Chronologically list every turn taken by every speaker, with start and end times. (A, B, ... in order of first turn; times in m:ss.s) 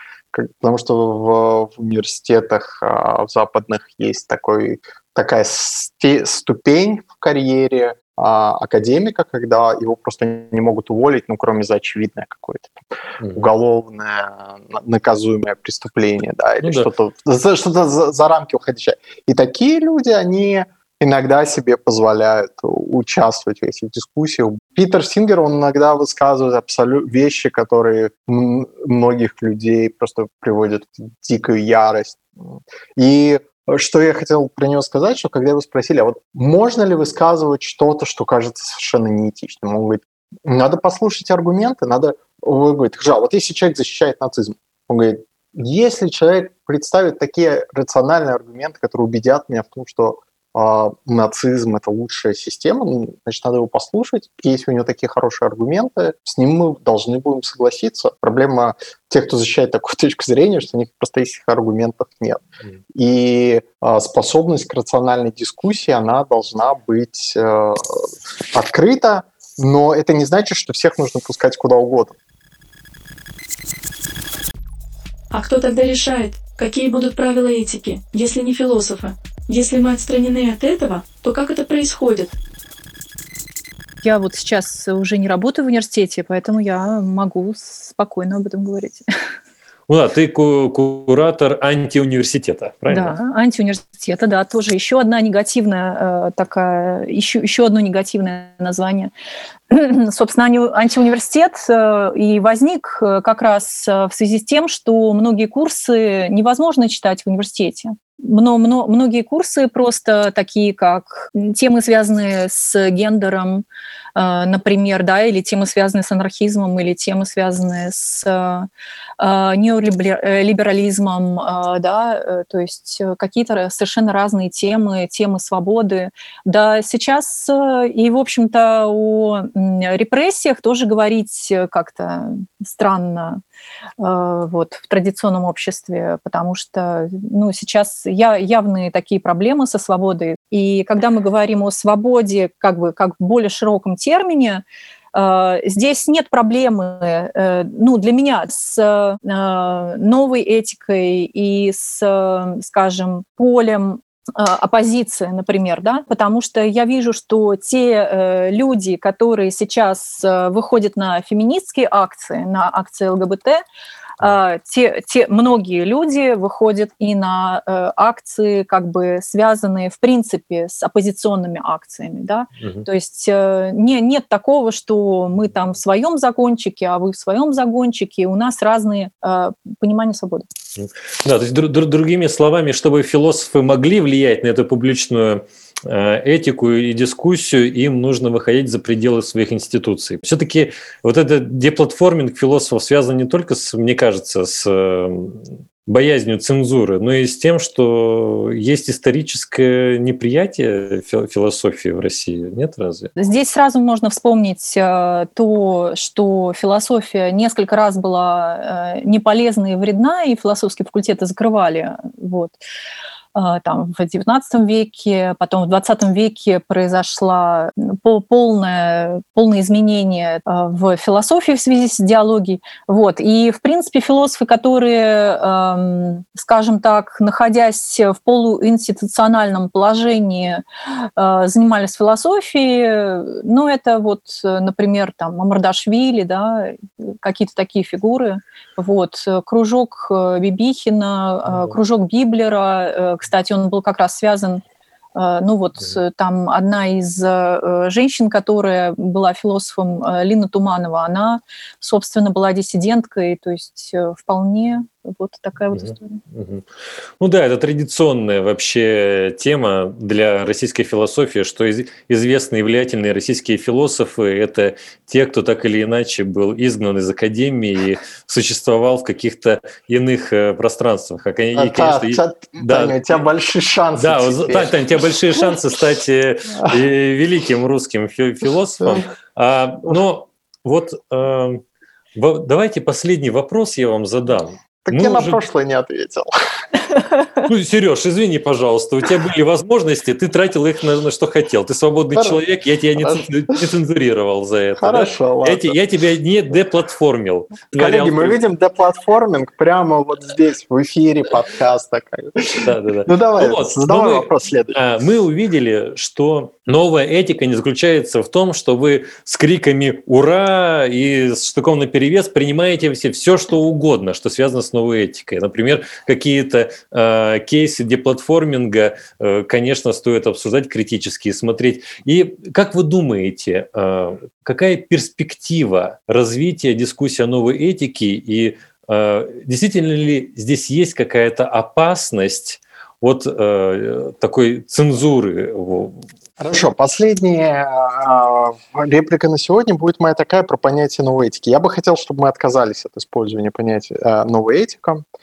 0:00.3-1:12.2 A
0:16.6-0:16.9 B
1:15.3-1:22.4 C
1:24.0-1:29.0 D
1:29.9-1:33.2 B
1:32.9-1:39.1 D
1:39.7-1:53.6 D
1:54.2-1:58.7 D
1:59.2-2:13.4 D
2:14.0-2:24.6 D
2:25.1-2:43.6 D
2:44.2-3:00.5 D
2:52.6-2:52.9 B
3:00.8-3:23.1 B
3:23.2-3:32.6 D
3:33.4-3:50.6 D
3:51.2-4:04.6 D
4:05.2-4:16.2 D
4:15.7-4:16.7 B
4:17.2-4:33.0 B
4:31.6-4:35.5 A
4:34.0-4:41.6 B
4:42.2-4:45.4 B
4:44.8-4:46.3 A
4:47.4-4:58.4 B
4:52.1-4:52.4 A
4:53.0-4:53.6 A
4:54.8-4:55.8 A
4:57.8-5:04.8 A
5:02.6-5:36.0 B
5:36.4-5:45.0 A